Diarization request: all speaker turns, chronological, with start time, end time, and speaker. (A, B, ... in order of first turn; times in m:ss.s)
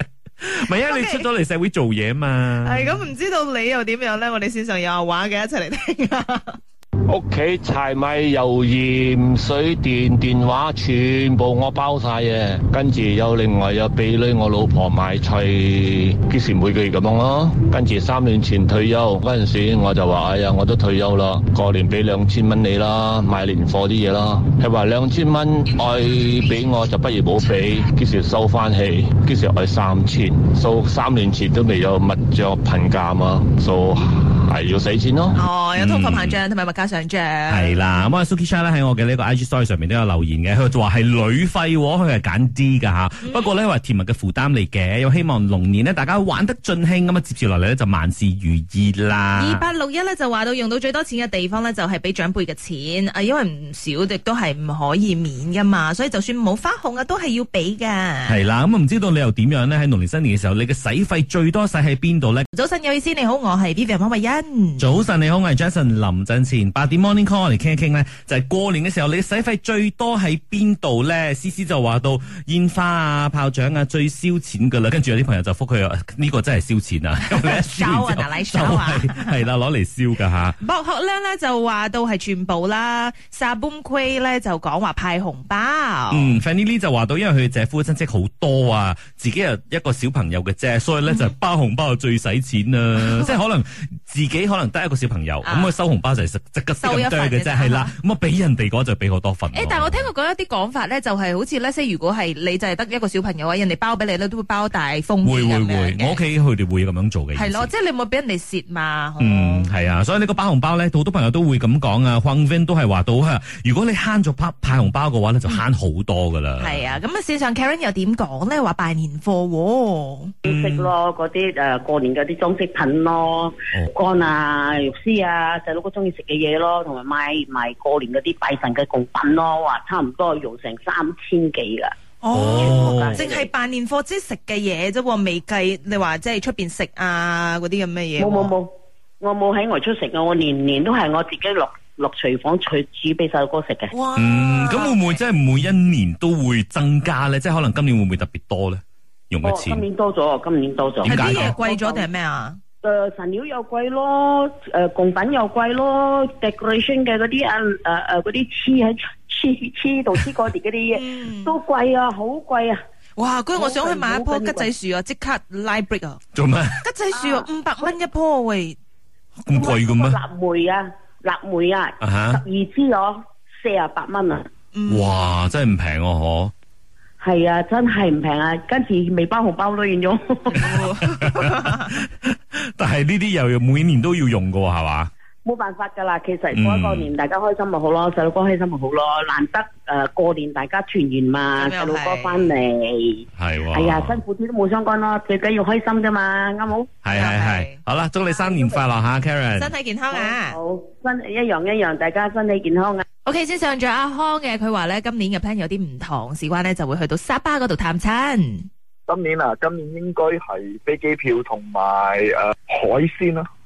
0:00.4-0:03.0 A
0:00.7-0:01.2 B
0:02.6-0:06.6 B
0:07.1-0:35.4 C
0:35.4-0:37.8 B
0:35.7-0:36.4 A
0:37.5-0:49.7 A
0:43.2-0:43.5 B
0:49.4-0:58.4 B
0:58.3-1:02.4 A
1:02.5-1:04.8 B
1:04.8-1:20.6 A
1:17.3-1:19.3 B
1:20.6-1:26.3 B
1:26.1-1:40.1 A
1:35.4-1:35.8 B
1:36.8-1:37.9 B
1:39.5-1:46.2 B
1:45.2-1:47.7 A
1:47.3-1:49.7 B
1:49.2-1:56.9 A
1:56.6-2:00.3 B
2:00.4-2:11.9 D
2:00.4-2:00.9 A
2:12.2-2:18.5 B
2:12.3-2:13.2 A
2:12.6-2:13.5 D
2:18.2-2:23.9 D
2:23.9-2:24.9 B
2:24.1-2:29.8 A
2:29.4-2:32.1 D
2:31.0-2:31.6 A
2:31.0-2:32.6 B
2:32.8-2:42.8 D
2:40.9-2:41.6 B
2:43.2-2:46.2 B
2:43.5-2:44.7 D
2:46.3-2:46.8 A
2:46.8-2:48.8 B
2:47.2-2:47.5 D
2:49.4-2:50.2 A
2:49.5-2:54.5 D
2:52.0-2:52.4 A
2:54.7-2:55.3 B
2:54.9-2:56.5 A
2:57.2-3:00.7 D
3:00.6-3:01.9 B
3:00.8-3:05.1 A
3:05.4-3:16.9 D
3:06.5-3:07.1 A
3:11.6-3:12.5 B
3:13.4-3:14.2 A
3:17.0-3:19.7 A
3:17.1-3:17.8 B
3:18.2-3:18.9 D
3:19.6-3:20.6 B
3:20.1-3:23.0 D
3:23.2-3:28.7 B
3:29.1-3:33.5 E